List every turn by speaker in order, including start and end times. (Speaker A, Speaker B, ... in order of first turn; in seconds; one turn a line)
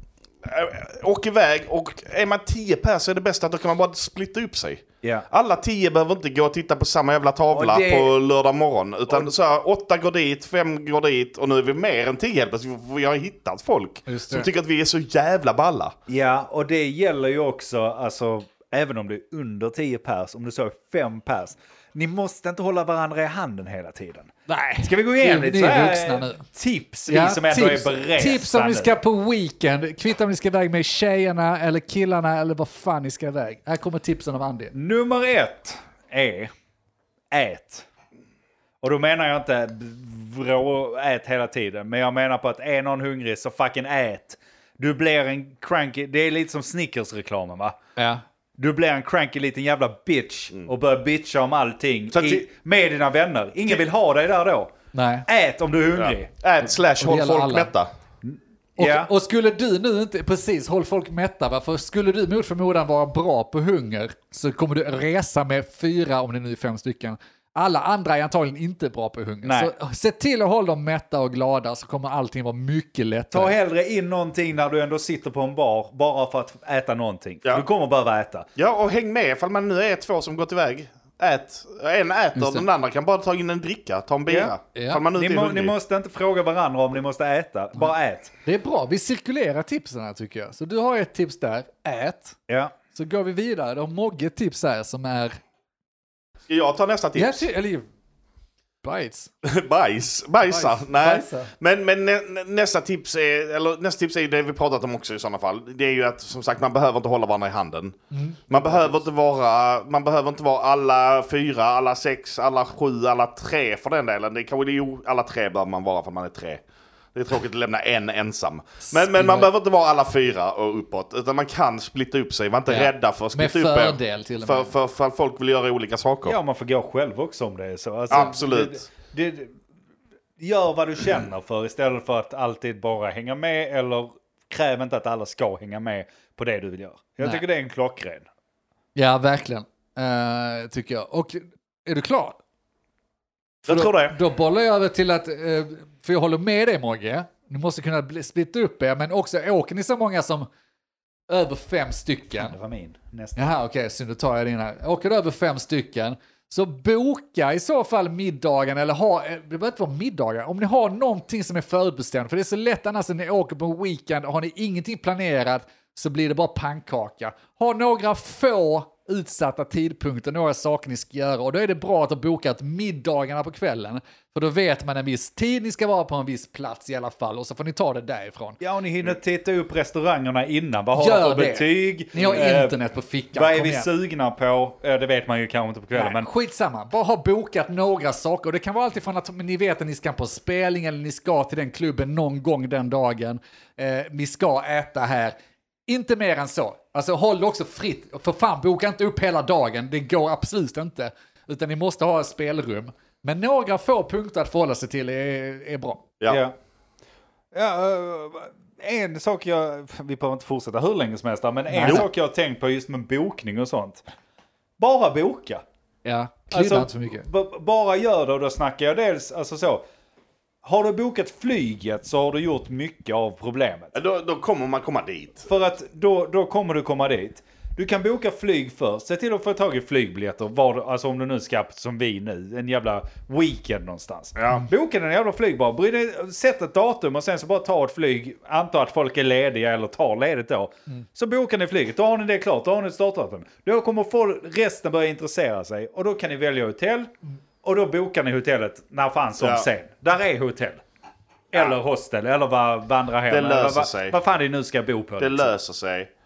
Speaker A: 0.4-15.9
Speaker B: 7.5-8.1
Speaker C: 14.1-14.5
Speaker B: 16.1-28.9
Speaker C: 24.5-26.4
Speaker C: 27.1-34.7
Speaker B: 34.7-36.5
Speaker B: 37.3-37.9
Speaker B: 38.8-47.8
Speaker C: 48.0-48.2
Speaker B: 48.6-54.7
Speaker A: 52.1-52.4
Speaker C: 54.9-55.2
Speaker B: 55.3-56.3
Speaker A: 56.0-57.9
Speaker C: 57.0-57.7
Speaker B: 58.2-59.1
Speaker C: 58.8-73.5
Speaker B: 69.4-69.7
Speaker B: 73.3-78.5
Speaker A: 78.5-85.7
Speaker C: 82.3-82.7
Speaker B: 84.3-84.5
Speaker C: 84.7-85.0
Speaker B: 85.1-88.3
Speaker C: 88.4-92.4
Speaker B: 92.5-92.7
Speaker C: 92.9-95.4
Speaker A: 96.5-97.5
Speaker C: 97.1-97.8
Speaker C: 98.8-99.3
Speaker A: 99.4-108.0
Speaker C: 100.5-101.5
Speaker C: 108.1-108.6
Speaker A: 108.5-116.6
Speaker A: 117.1-126.4
Speaker C: 118.8-119.5
Speaker C: 122.7-124.7
Speaker B: 126.2-129.5
Speaker A: 128.1-128.8
Speaker B: 130.4-138.3
Speaker C: 138.9-142.4
Speaker B: 143.7-144.2
Speaker C: 143.7-150.5
Speaker C: 151.3-152.5
Speaker B: 152.4-153.4
Speaker C: 153.3-178.6
Speaker B: 178.6-182.8
Speaker C: 180.9-183.9
Speaker B: 183.3-186.3
Speaker C: 185.9-195.3
Speaker C: 195.9-206.0
Speaker B: 206.3-206.5
Speaker B: 207.5-214.0
Speaker C: 211.7-212.0
Speaker B: 214.8-215.6
Speaker C: 216.0-217.3
Speaker B: 216.5-219.8
Speaker B: 220.6-223.9
Speaker A: 223.9-225.4
Speaker B: 225.4-247.1
Speaker A: 234.4-234.7
Speaker B: 247.6-250.8
Speaker A: 249.4-249.7
Speaker B: 251.5-255.5
Speaker A: 253.3-254.2
Speaker A: 255.2-256.1